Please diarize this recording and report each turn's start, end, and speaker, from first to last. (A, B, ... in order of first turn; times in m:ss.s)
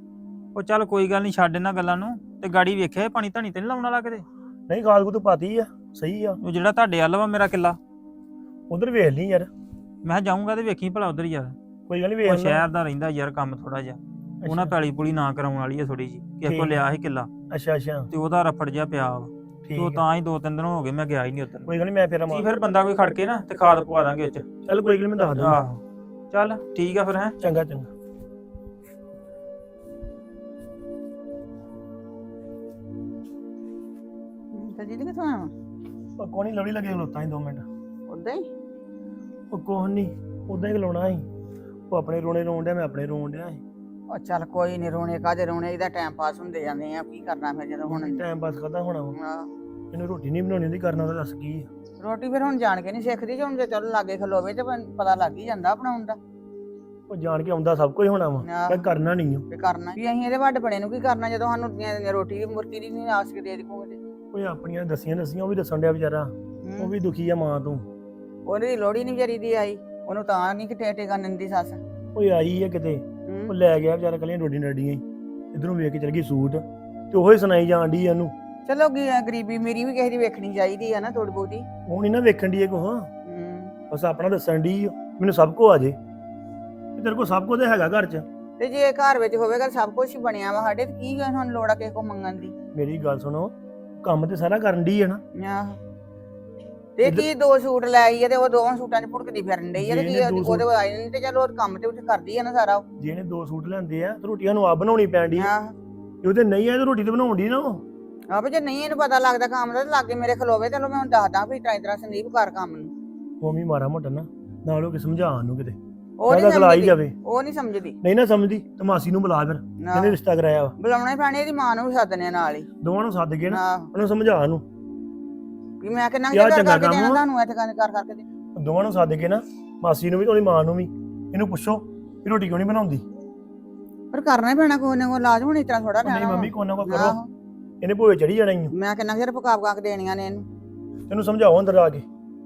0:00.6-0:04.2 A
0:04.7-0:06.4 B
0:06.4-0:07.8 A
0:08.7-0:09.5 B
0:10.0-0:11.6 A
0:11.9-0:12.6 B
0:12.2-0:17.3 A
0:14.4-0:14.7 B
0:16.4-0:16.7 B
0:17.5-0:18.1 B
0:18.1-0:21.7 A
0:19.7-0:20.0 B
0:21.7-0:22.4 B
0:22.3-0:24.4 A
0:24.6-0:25.6 B
0:25.4-0:25.8 A
0:26.3-0:27.3 A
0:27.4-0:27.9 B
0:34.5-0:35.5 C
0:36.2-0:37.6 B
0:38.1-0:38.4 C
0:39.5-0:41.2 B
0:41.9-0:43.6 B
0:44.1-0:48.2 C
0:47.9-0:49.2 B
0:49.2-0:49.5 C
0:49.9-0:51.7 B
0:52.0-0:56.2 C
0:57.1-0:59.4 B
0:58.4-0:58.8 C
0:59.5-1:04.0 C
1:04.3-1:07.8 B
1:06.6-1:06.9 C
1:08.5-1:11.8 C
1:12.1-1:18.3 B
1:13.3-1:13.5 C
1:18.6-1:21.6 C
1:21.9-1:23.1 B
1:23.2-1:23.7 C
1:23.9-1:26.0 B
1:27.0-1:28.2 B
1:28.6-1:32.5 C
1:32.7-1:35.2 B
1:35.4-1:35.8 C
1:37.0-1:42.8 C
1:39.7-1:40.7 B
1:43.0-1:45.5 B
1:45.4-1:45.7 C
1:46.2-1:47.8 B
1:48.3-1:52.9 C
1:53.4-1:55.8 B
1:56.2-1:58.0 C
1:56.3-1:57.1 B
1:58.0-2:00.7 B
1:59.8-2:00.2 C
2:00.8-2:02.7 C
2:02.8-2:04.6 B
2:03.5-2:03.9 C
2:05.8-2:08.2 C
2:06.3-2:07.2 B
2:08.6-2:13.0 B
2:14.1-2:17.3 C
2:16.0-2:17.2 B
2:17.8-2:18.7 B
2:18.7-2:20.4 C
2:21.1-2:22.0 B